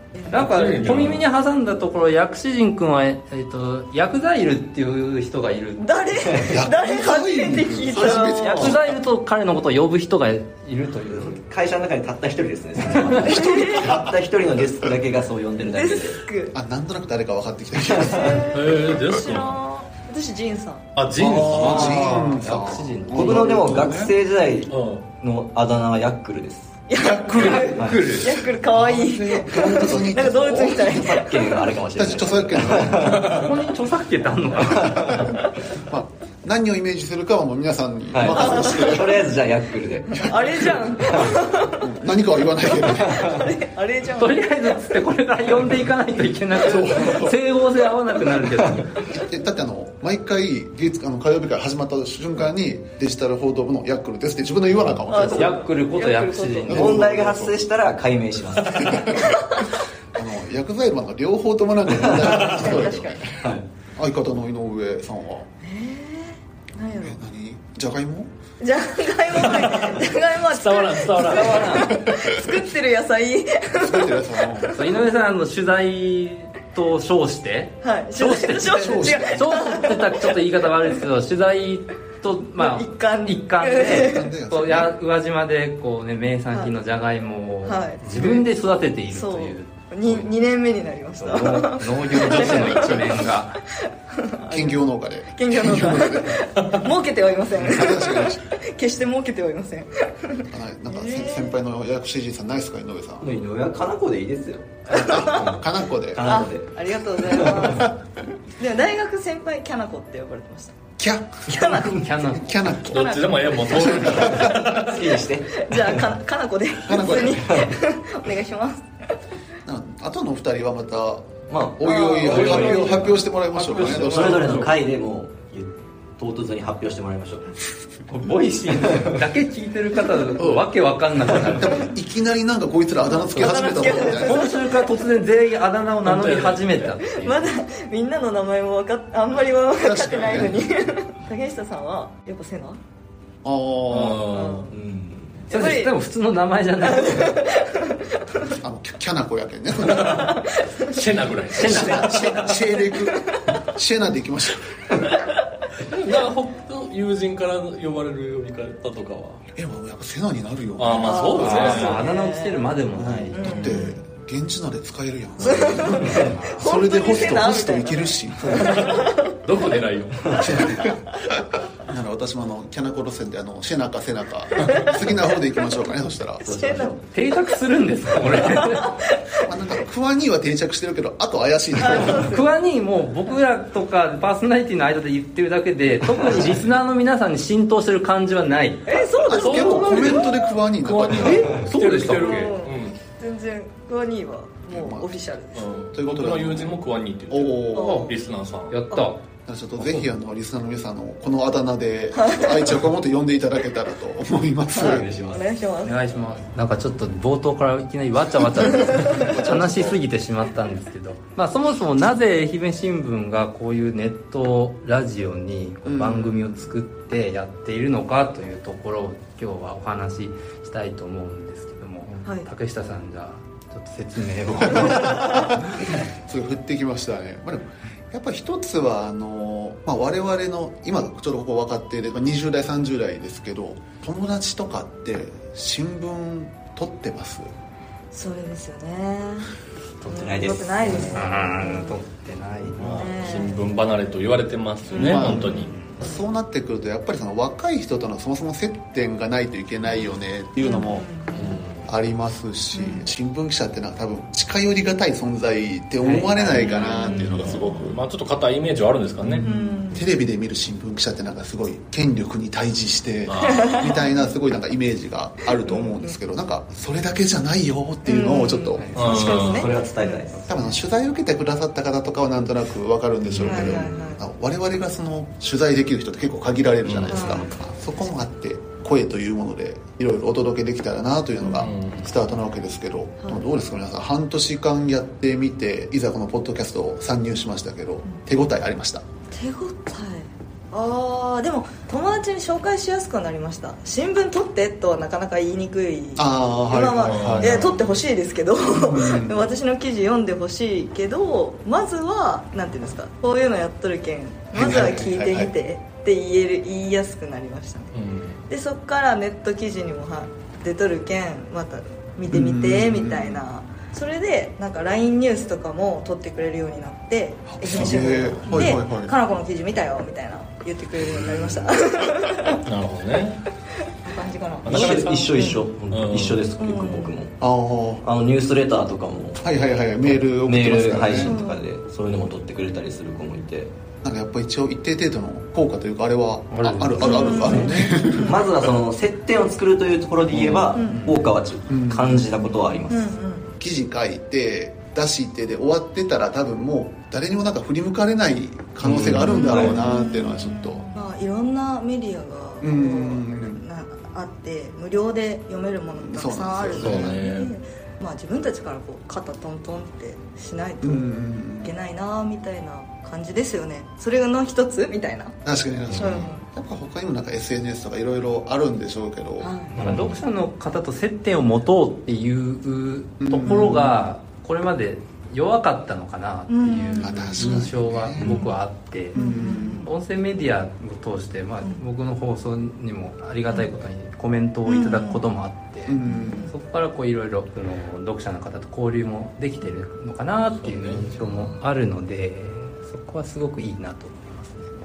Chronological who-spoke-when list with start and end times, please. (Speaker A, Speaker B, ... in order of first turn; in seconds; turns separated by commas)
Speaker A: 0.3-5.8, Speaker B: 0.3-1.2, Speaker C: 5.8-8.8, Speaker D: 6.3-6.6, Speaker E: 6.5-8.8, Speaker D: 8.1-8.7, Speaker A: 8.3-11.4, Speaker D: 11.1-16.2, Speaker E: 13.2-14.1, Speaker C: 13.3-13.9, Speaker C: 15.7-16.6, Speaker E: 16.5-18.4, Speaker D: 17.8-18.4, Speaker C: 18.1-20.9, Speaker B: 18.5-19.6, Speaker B: 21.0-22.1, Speaker E: 21.2-24.1, Speaker A: 21.2-23.7, Speaker D: 23.1-26.8, Speaker B: 24.7-25.1, Speaker C: 26.9-31.6, Speaker A: 27.0-28.4, Speaker D: 27.7-28.1, Speaker E: 28.7-30.9, Speaker D: 30.8-33.5, Speaker E: 31.9-33.4, Speaker A: 33.0-35.4, Speaker D: 34.8-35.3, Speaker E: 35.3-39.1, Speaker D: 38.1-40.2, Speaker C: 38.4-39.2, Speaker C: 40.1-41.8, Speaker E: 40.1-40.7, Speaker D: 41.0-41.4, Speaker E: 41.7-43.3, Speaker C: 42.9-44.8, Speaker D: 43.0-43.4, Speaker A: 44.2-49.0, Speaker E: 46.5-47.4, Speaker E: 49.1-55.6, Speaker C: 55.1-57.0, Speaker A: 55.2-57.0, Speaker D: 56.7-59.0, Speaker E: 56.7-57.7, Speaker E: 58.7-59.5, Speaker C: 59.0-59.4, Speaker E: 60.1-63.3, Speaker D: 61.9-62.9, Speaker C: 62.2-63.4, Speaker D: 63.4-63.7, Speaker E: 63.9-65.5, Speaker C: 65.6-67.2, Speaker E: 67.0-68.3, Speaker C: 68.6-74.9, Speaker B: 69.5-69.9, Speaker B: 70.5-71.9, Speaker D: 71.3-71.9, Speaker E: 73.8-74.8, Speaker A: 74.8-90.3, Speaker C: 77.8-80.3, Speaker E: 78.8-79.5, Speaker C: 82.5-84.3, Speaker E: 83.8-85.0, Speaker C: 87.7-88.5, Speaker C: 89.1-93.2, Speaker A: 91.2-93.6, Speaker E: 92.1-93.2, Speaker C: 93.8-94.8, Speaker E: 94.5-96.4, Speaker C: 95.4-101.6, Speaker E: 97.6-98.4, Speaker E: 100.5-103.3, Speaker D: 103.2-104.9, Speaker E: 104.9-106.3, Speaker C: 104.9-105.6, Speaker D: 106.1-106.8, Speaker C: 106.2-108.0, Speaker D: 107.3-107.8, Speaker C: 108.6-110.8, Speaker E: 111.0-113.1, Speaker C: 111.5-112.1, Speaker A: 111.5-112.7, Speaker C: 112.8-118.9, Speaker B: 112.8-115.0, Speaker E: 113.7-114.6, Speaker D: 114.0-115.6, Speaker E: 116.8-117.6, Speaker D: 117.3-117.7, Speaker E: 119.7-124.5, Speaker D: 121.5-122.7, Speaker C: 121.8-123.2, Speaker A: 122.4-124.8, Speaker B: 123.7-124.7, Speaker D: 123.9-127.5, Speaker A: 128.1-131.9, Speaker E: 130.4-130.7, Speaker E: 131.4-134.4, Speaker C: 133.1-134.9, Speaker A: 133.9-137.5, Speaker B: 136.0-137.0, Speaker C: 137.1-142.8, Speaker E: 139.8-140.6, Speaker E: 143.4-144.2, Speaker B: 143.9-144.7, Speaker C: 144.2-144.8, Speaker D: 144.7-145.4, Speaker C: 145.5-145.9, Speaker A: 145.5-147.4, Speaker C: 146.8-148.5, Speaker E: 148.6-150.4, Speaker B: 149.9-150.3, Speaker C: 149.9-151.0, Speaker B: 150.9-152.5, Speaker A: 151.6-152.6, Speaker E: 151.6-154.8, Speaker C: 152.9-153.6, Speaker B: 155.8-159.4, Speaker E: 159.6-161.3, Speaker B: 160.8-162.1, Speaker C: 161.0-162.7, Speaker A: 161.4-163.9, Speaker E: 162.9-168.8, Speaker C: 163.3-164.0, Speaker C: 165.4-169.3, Speaker A: 165.8-166.6, Speaker B: 168.4-170.7, Speaker E: 170.3-171.1, Speaker C: 170.6-171.4, Speaker E: 171.7-176.7, Speaker C: 174.7-175.1, Speaker C: 176.4-177.3, Speaker D: 176.4-177.0, Speaker A: 177.1-178.9, Speaker C: 178.2-179.1, Speaker E: 179.4-182.3, Speaker C: 181.8-182.5, Speaker A: 182.0-189.0, Speaker C: 188.9-190.6, Speaker E: 189.2-191.6, Speaker B: 189.3-193.0, Speaker A: 191.2-192.6, Speaker C: 192.0-195.7, Speaker E: 194.7-195.1, Speaker B: 195.5-198.8, Speaker E: 195.9-196.8, Speaker E: 197.3-198.0, Speaker C: 197.7-198.2, Speaker A: 197.8-198.1, Speaker A: 198.7-199.2, Speaker E: 199.5-205.1, Speaker C: 202.2-202.6, Speaker D: 204.7-205.5, Speaker C: 205.3-206.0, Speaker A: 205.8-225.8, Speaker E: 209.0-210.0, Speaker E: 215.9-216.7, Speaker E: 224.6-237.5, Speaker C: 238.1-239.5, Speaker D: 240.1-241.1, Speaker C: 240.1-242.0, Speaker B: 240.9-241.2, Speaker A: 241.1-243.1, Speaker B: 242.8-245.7, Speaker C: 243.0-243.7, Speaker C: 244.9-246.2, Speaker E: 245.0-251.1, Speaker A: 245.4-245.9, Speaker C: 250.6-251.6, Speaker B: 251.3-251.9, Speaker E: 251.8-258.0, Speaker C: 252.7-253.1, Speaker A: 256.0-257.1, Speaker C: 256.7-257.9, Speaker B: 257.0-259.4, Speaker E: 259.2-268.8, Speaker A: 259.4-259.7, Speaker C: 259.4-260.1, Speaker B: 263.3-263.8, Speaker C: 263.4-264.3, Speaker C: 265.6-266.1, Speaker C: 268.1-270.3, Speaker A: 268.8-269.6, Speaker B: 268.9-269.7, Speaker D: 269.5-270.4, Speaker A: 270.3-270.8, Speaker E: 270.5-289.0, Speaker B: 273.3-273.8, Speaker C: 273.4-274.2, Speaker B: 276.9-277.4, Speaker C: 277.1-277.5, Speaker C: 281.4-281.7, Speaker B: 281.6-282.1, Speaker C: 289.3-307.9, Speaker E: 296.2-297.7, Speaker B: 297.0-298.0, Speaker E: 298.7-299.5, Speaker E: 304.5-305.5, Speaker B: 307.9-308.4, Speaker C: 308.5-322.6, Speaker E: 312.3-313.4, Speaker E: 317.5-319.1, Speaker B: 321.2-321.6, Speaker B: 322.6-323.4, Speaker C: 324.0-325.6, Speaker B: 324.6-325.2, Speaker D: 324.7-327.4, Speaker B: 325.9-326.5, Speaker C: 326.6-327.1, Speaker E: 327.4-328.1, Speaker D: 328.0-329.4, Speaker E: 329.4-331.4, Speaker D: 330.0-333.7, Speaker C: 331.2-331.6, Speaker E: 334.0-338.6, Speaker A: 336.5-337.9, Speaker C: 337.0-338.4, Speaker D: 338.2-343.1, Speaker B: 340.3-340.7, Speaker C: 340.8-341.1, Speaker A: 340.8-341.2, Speaker E: 341.7-342.3, Speaker C: 342.9-343.5, Speaker E: 343.6-350.9, Speaker D: 348.8-349.8, Speaker C: 349.2-361.1, Speaker E: 352.6-353.6, Speaker E: 355.9-357.2, Speaker B: 356.8-357.5, Speaker E: 360.8-361.7, Speaker C: 361.6-365.4, Speaker E: 365.4-369.5, Speaker B: 365.9-366.3, Speaker C: 366.0-366.4, Speaker C: 369.4-369.8, Speaker A: 369.8-379.2, Speaker B: 369.8-370.1, Speaker E: 373.2-374.0, Speaker C: 376.5-377.6, Speaker E: 377.0-378.4, Speaker D: 378.1-378.4, Speaker C: 378.2-378.5, Speaker C: 379.1-379.9, Speaker E: 379.1-379.9, Speaker A: 379.8-394.6, Speaker C: 384.7-385.2, Speaker E: 385.9-386.5, Speaker C: 386.1-386.5, Speaker B: 390.6-391.1